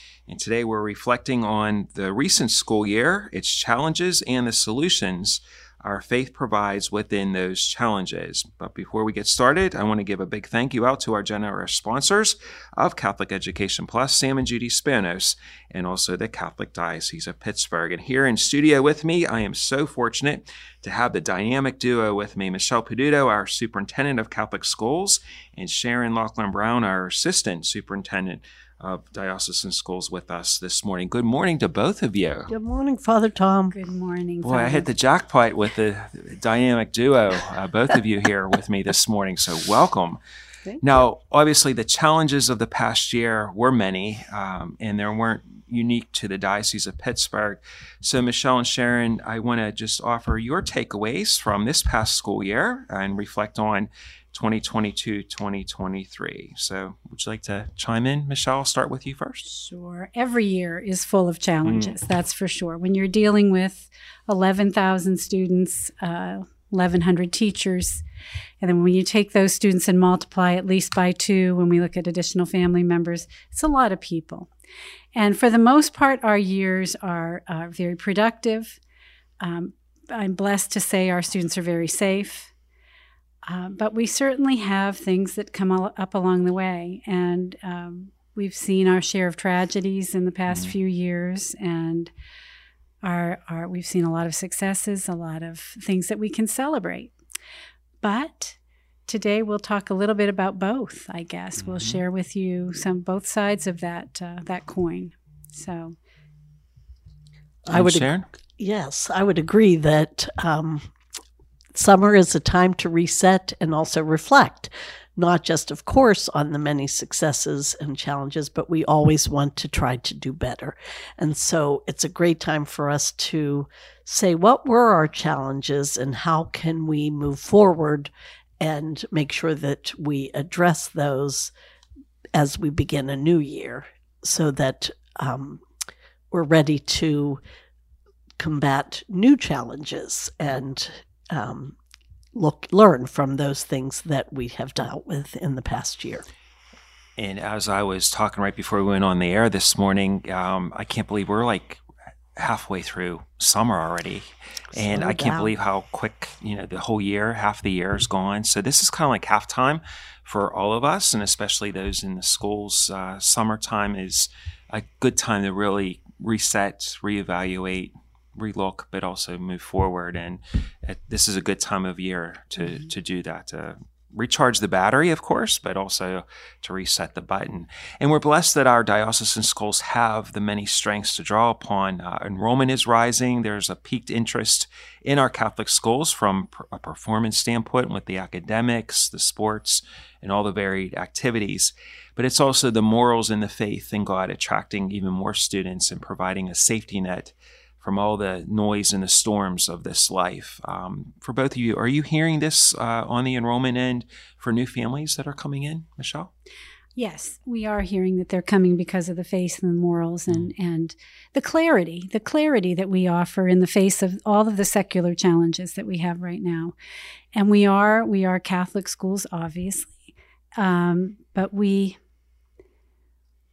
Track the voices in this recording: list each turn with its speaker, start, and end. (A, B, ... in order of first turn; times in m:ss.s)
0:00.3-0:32.5 A
0:32.5-0:33.7 B
0:33.7-0:34.9 C
0:34.4-0:40.2 A
0:40.8-0:59.4 A
0:59.4-1:08.0 C
1:01.6-1:02.0 A
1:08.6-1:14.5 C
1:15.1-1:18.8 C
1:19.4-1:22.5 C
1:23.4-1:32.1 C
1:30.5-1:30.7 A
1:33.0-1:37.1 C
1:38.0-1:38.6 C
1:39.1-1:46.0 C
1:41.6-1:42.0 A
1:47.6-1:50.9 B
1:47.7-1:48.3 A
1:51.7-2:11.5 B
2:12.3-2:15.6 B
2:16.3-2:17.4 B
2:18.4-2:21.8 B
2:22.3-2:26.3 B
2:27.2-2:31.8 A
2:32.4-3:26.3 A
2:34.7-2:35.5 B
3:27.0-3:36.7 C
3:37.3-3:40.0 C
3:40.6-3:42.0 C